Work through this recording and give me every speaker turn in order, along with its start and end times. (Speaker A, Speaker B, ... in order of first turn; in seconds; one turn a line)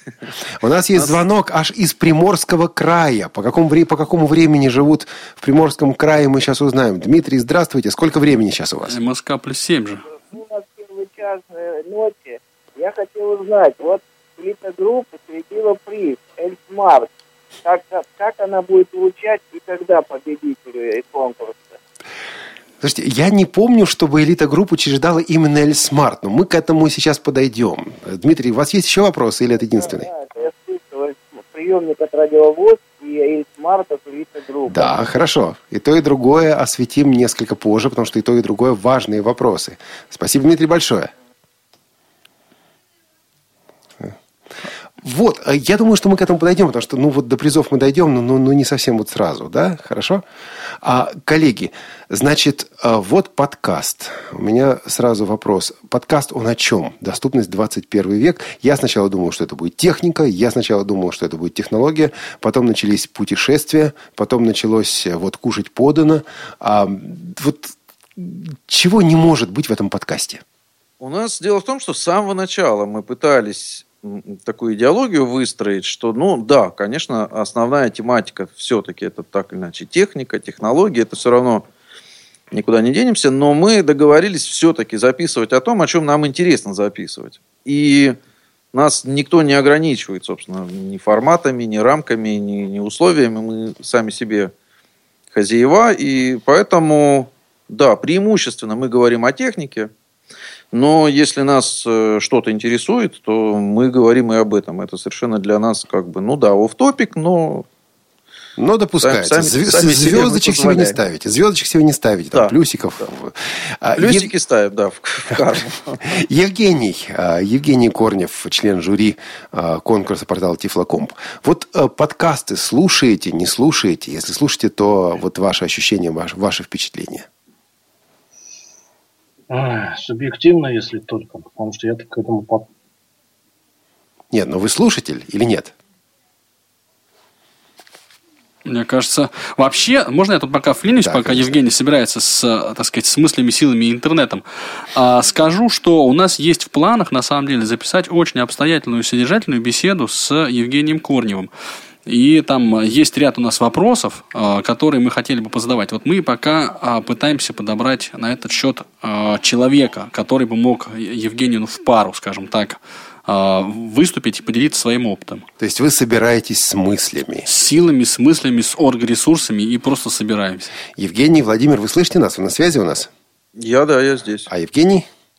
Speaker A: 0.6-9.0
Speaker B: 8.9-10.0
Speaker C: 10.2-17.1
Speaker C: 17.6-21.8
Speaker A: 22.8-30.1
Speaker C: 29.7-34.9
Speaker A: 34.7-41.1
Speaker A: 45.0-50.2
Speaker A: 50.8-70.4
Speaker D: 71.0-81.7
Speaker D: 82.5-88.2
Speaker D: 88.7-94.5
Speaker D: 95.3-99.9
Speaker D: 100.7-107.7
Speaker A: 108.6-114.3
Speaker D: 109.0-111.0
Speaker D: 112.3-113.0
Speaker D: 114.0-116.1
Speaker A: 116.1-127.3
Speaker E: 129.5-132.7
Speaker A: 134.3-135.7
Speaker B: 138.7-144.4
Speaker A: 141.0-141.6
Speaker B: 144.9-151.5
Speaker B: 152.1-165.5
Speaker A: 165.6-167.5
Speaker B: 167.5-170.8
Speaker A: 170.9-173.1
Speaker D: 173.6-174.5
Speaker A: 174.5-175.1